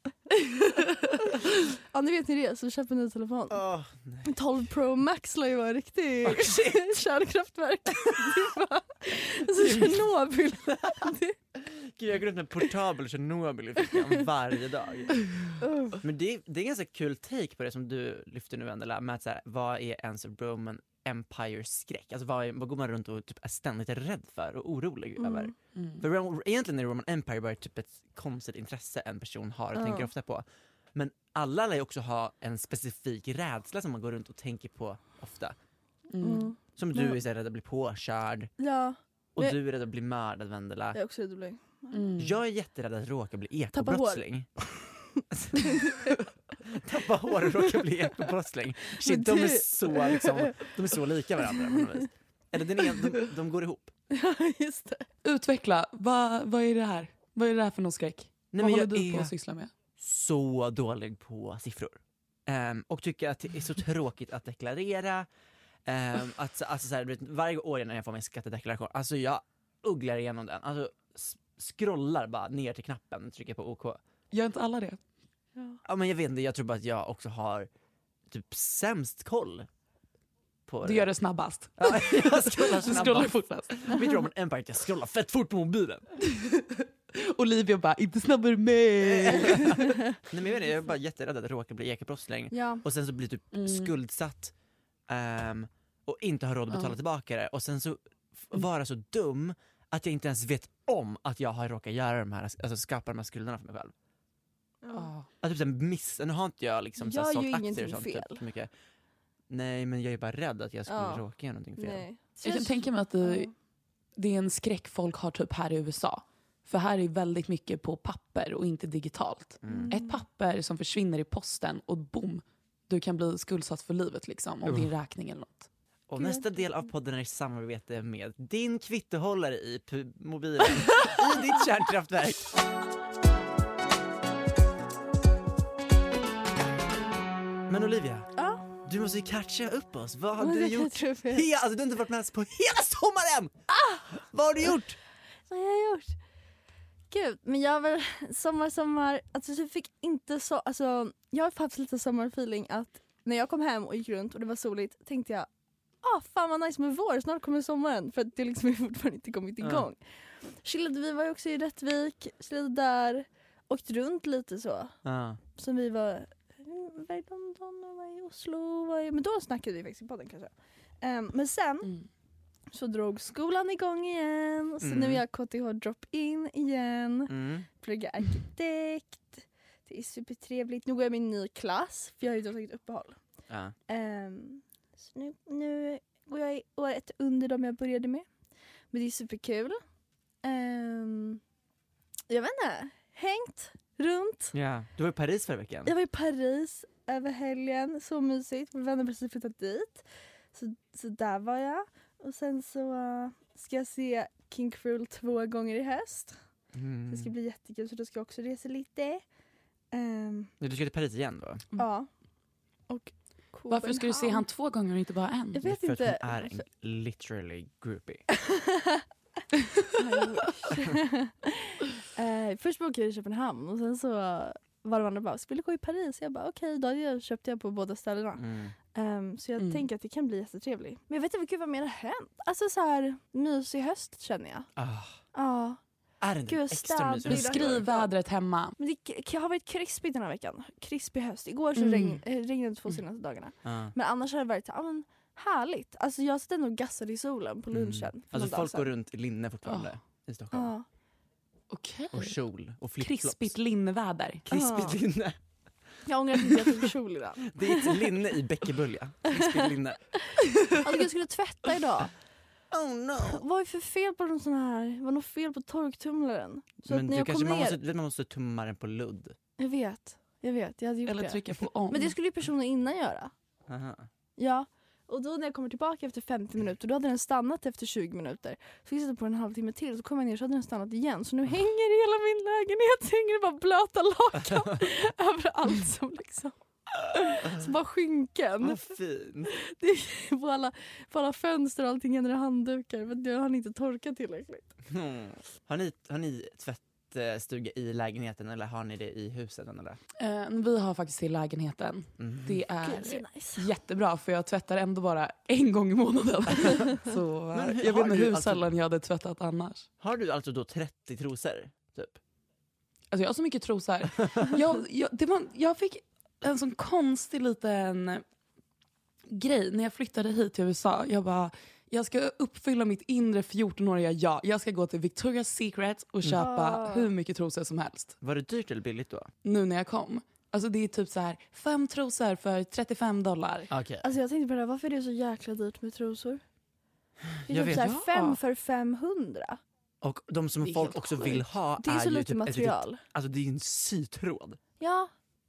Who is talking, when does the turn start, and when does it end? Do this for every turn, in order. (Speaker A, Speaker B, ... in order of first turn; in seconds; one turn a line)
Speaker A: 0.3-3.6
Speaker B: 3.5-4.4
Speaker A: 4.2-11.4
Speaker B: 6.2-7.0
Speaker B: 9.6-10.1
Speaker B: 11.6-15.5
Speaker A: 15.6-16.0
Speaker B: 16.0-35.5
Speaker A: 25.2-25.5
Speaker C: 25.8-26.1
Speaker A: 29.8-30.1
Speaker C: 36.1-36.5
Speaker A: 36.2-37.2
Speaker B: 36.8-38.5
Speaker A: 38.6-39.6
Speaker B: 39.4-41.0
Speaker A: 41.0-42.1
Speaker C: 41.9-42.4
Speaker B: 42.2-44.5
Speaker A: 43.7-46.2
Speaker B: 45.3-45.9
Speaker B: 46.7-53.9
Speaker A: 49.0-50.7
Speaker A: 54.1-55.1
Speaker C: 55.2-59.7
Speaker B: 58.5-59.3
Speaker B: 60.0-65.3
Speaker B: 65.9-74.0
Speaker C: 74.3-75.0
Speaker B: 75.9-77.7
Speaker B: 78.3-79.7
Speaker B: 80.7-81.1
Speaker C: 80.8-84.1
Speaker B: 81.8-86.1
Speaker C: 86.3-89.8
Speaker B: 89.0-94.5
Speaker A: 92.5-92.8
Speaker C: 93.5-93.9
Speaker B: 95.1-103.9
Speaker A: 104.8-105.1
Speaker C: 104.9-105.3
Speaker B: 105.4-108.7
Speaker A: 107.0-108.4
Speaker B: 109.5-112.1
Speaker A: 110.9-111.2
Speaker A: 111.8-113.5
Speaker C: 112.4-113.5
Speaker C: 114.2-125.7
Speaker B: 119.6-119.9
Speaker A: 119.7-120.2
Speaker B: 126.1-132.5
Speaker A: 126.2-126.7
Speaker B: 137.7-138.3
Speaker A: 138.4-138.7
Speaker B: 138.8-143.6
Speaker A: 140.4-141.5
Speaker A: 143.7-144.1
Speaker B: 144.2-145.0
Speaker A: 145.5-146.2
Speaker A: 147.1-155.5
Speaker A: 156.0-164.9
Speaker B: 159.6-159.9
Speaker B: 165.0-165.4
Speaker A: 165.6-171.9
Speaker A: 172.7-183.2
Speaker B: 174.8-175.2
Speaker B: 177.3-177.7
Speaker B: 183.5-183.8
Speaker A: 183.9-188.3
Speaker A: 188.9-189.8
Speaker A: 190.4-191.4
Speaker A: 192.3-194.5
Speaker B: 194.5-195.9
Speaker A: 195.9-206.4
Speaker B: 206.7-207.3
Speaker A: 207.1-209.2
Speaker A: 209.9-210.5
Speaker B: 210.6-211.7
Speaker A: 211.7-212.1
Speaker A: 212.9-214.4
Speaker C: 213.7-215.7
Speaker A: 215.5-216.6
Speaker B: 215.6-218.2
Speaker A: 218.3-219.1
Speaker A: 220.0-234.7
Speaker B: 228.4-228.8
Speaker C: 229.6-229.8
Speaker B: 234.8-235.2
Speaker A: 235.3-235.8
Speaker B: 236.2-237.8
Speaker A: 236.5-238.1
Speaker C: 237.3-238.8
Speaker A: 238.8-248.9
Speaker C: 241.8-242.2
Speaker B: 243.7-243.9
Speaker B: 247.7-250.7
Speaker C: 249.7-249.9
Speaker A: 250.5-250.9
Speaker C: 251.7-252.4
Speaker B: 252.1-253.5
Speaker C: 253.0-254.5
Speaker B: 254.5-255.4
Speaker A: 254.5-255.0
Speaker A: 256.1-258.1
Speaker B: 256.5-256.9
Speaker B: 257.5-260.0
Speaker A: 260.8-262.1
Speaker B: 262.7-263.4
Speaker A: 263.2-267.8
Speaker B: 266.9-269.4
Speaker A: 269.6-273.3
Speaker C: 271.1-272.1
Speaker B: 273.7-274.1
Speaker A: 274.4-288.8
Speaker B: 284.4-284.8
Speaker B: 288.6-289.5
Speaker A: 289.5-294.7
Speaker B: 294.9-300.0
Speaker C: 300.2-309.9
Speaker B: 302.2-302.6
Speaker A: 302.8-303.7
Speaker B: 307.5-308.7
Speaker B: 310.0-312.2
Speaker C: 313.1-318.2
Speaker C: 319.3-328.1
Speaker A: 326.4-327.1
Speaker B: 328.2-329.3
Speaker C: 329.4-333.7
Speaker B: 333.7-334.1
Speaker A: 334.0-336.4
Speaker B: 337.3-337.9
Speaker A: 337.5-339.6
Speaker C: 337.7-338.4
Speaker B: 340.0-344.6
Speaker C: 340.6-341.4
Speaker A: 341.8-343.0
Speaker A: 344.8-345.1